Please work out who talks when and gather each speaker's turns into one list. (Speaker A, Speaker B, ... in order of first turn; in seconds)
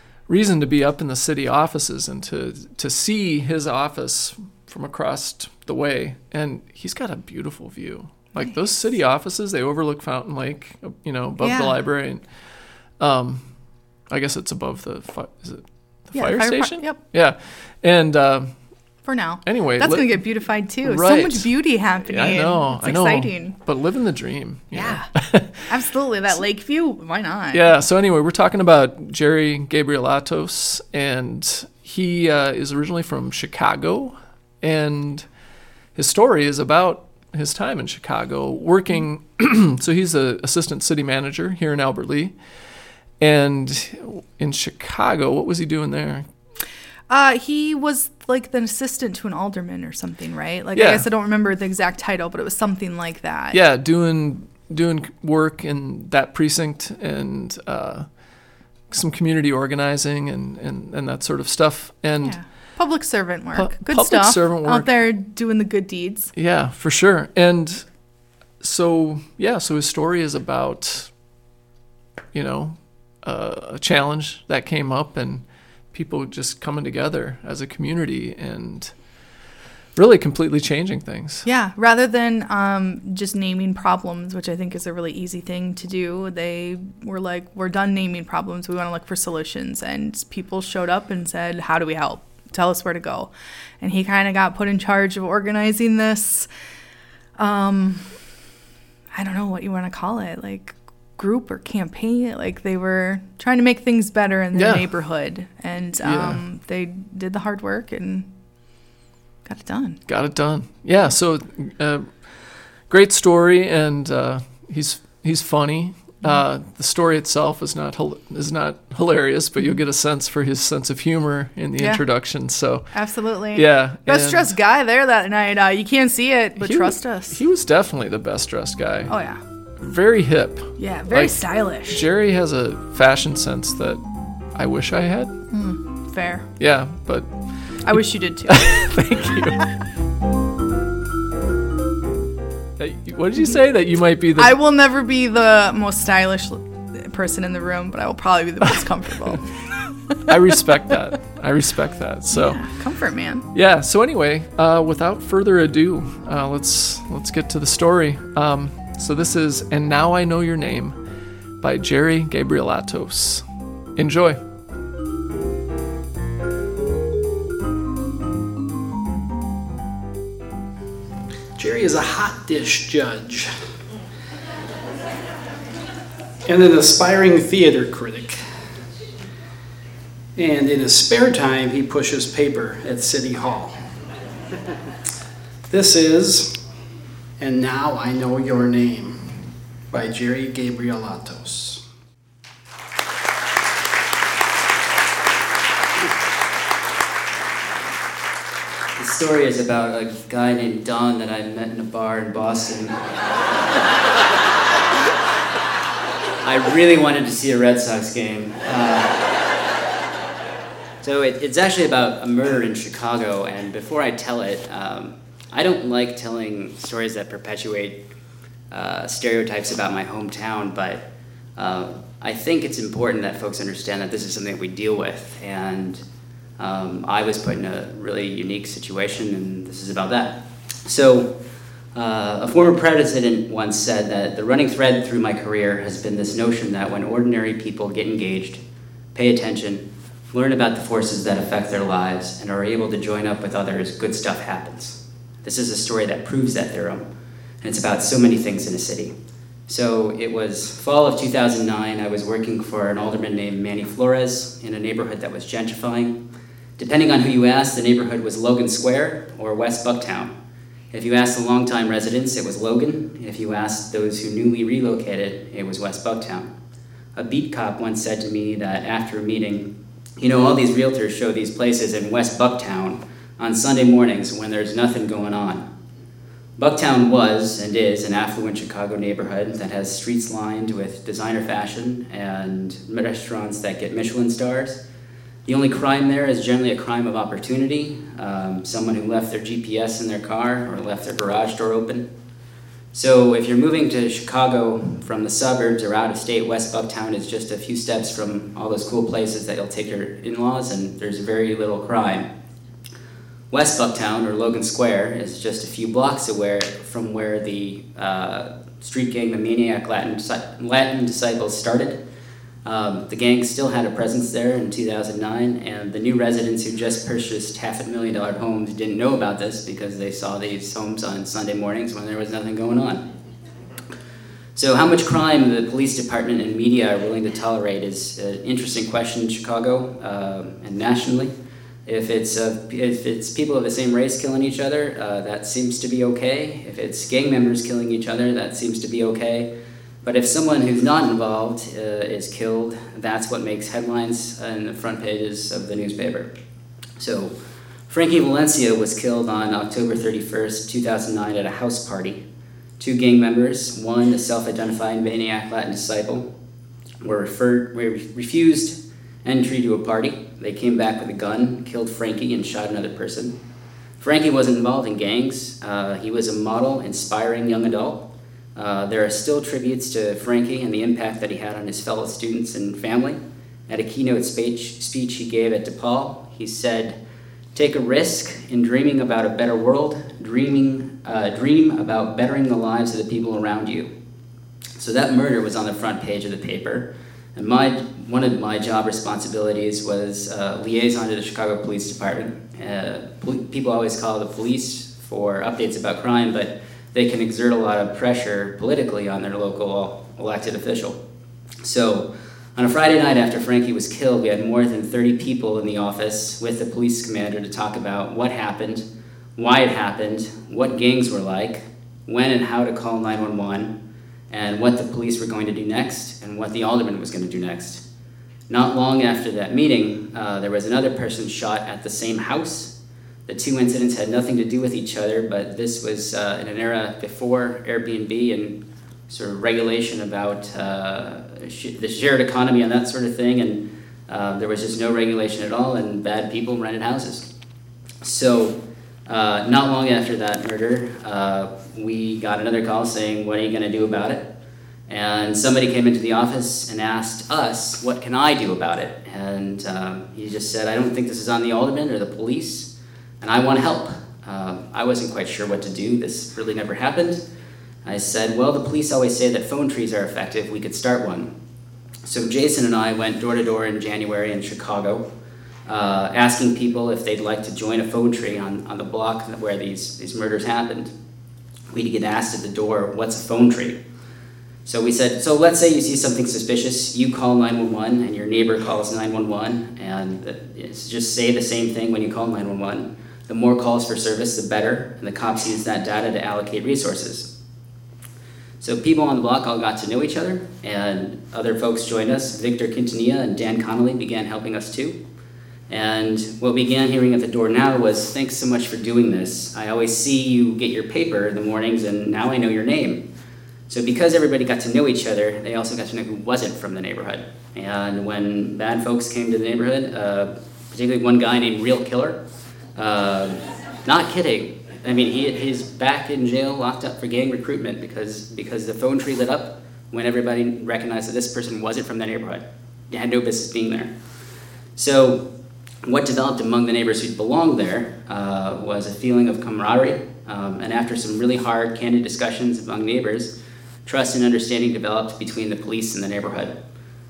Speaker A: 0.3-12.2, 13.0-13.5, 14.1-18.6, 19.4-25.7, 27.5-35.2, 35.9-42.4, 43.2-46.2, 50.7-51.1, 53.5-58.1, 58.9-62.4, 63.5-64.9, 66.3-67.8, 68.6-71.1, 72.3-78.9, 80.0-81.5, 104.5-104.9, 106.0-106.4, 110.0-123.0, 123.5-124.6, 126.6-129.1, 129.8-134.0, 134.5-135.3, 136.6-137.9, 138.5-139.7, 142.8-144.6, 150.2-152.7, 153.5-160.9, 161.6-163.4, 163.9-164.4
Speaker B: 11.4-11.8, 16.1-17.0, 19.0-23.6, 24.8-25.1, 25.6-27.6, 47.1-53.6, 62.2-66.3, 81.4-96.5, 97.4-98.1, 99.1-108.3, 109.4-110.0, 122.9-127.4, 129.1-129.4, 130.8-132.0, 135.5-136.4, 137.8-138.6, 144.3-149.6, 152.3-153.4
Speaker C: 171.6-173.5, 176.4-178.4, 180.4-183.8, 185.7-186.5, 187.4-189.3, 189.9-191.8
Speaker D: 199.0-203.0, 206.4-209.3, 211.0-218.0, 218.7-221.1, 221.6-226.0, 226.6-231.3, 231.9-238.6, 239.1-247.1, 247.6-249.1, 249.7-256.2, 256.8-260.3, 260.9-266.5, 267.1-275.6, 276.6-284.8, 285.4-292.1, 292.9-302.3, 303.5-312.0, 312.6-323.0, 324.5-331.3, 331.9-339.5, 340.0-346.3, 347.0-347.4, 347.9-352.2, 352.8-356.3, 357.0-363.4, 364.0-377.0, 377.5-383.9, 384.8-401.0, 401.6-408.8, 409.4-413.7, 414.3-417.8, 418.5-422.7, 423.3-437.3, 438.0-444.3, 444.9-457.2, 457.8-461.3, 462.0-465.0, 465.6-470.9, 471.7-473.8, 474.6-487.3, 488.6-495.0, 495.7-503.1, 503.7-512.2, 512.8-523.9, 524.8-525.3, 525.8-536.6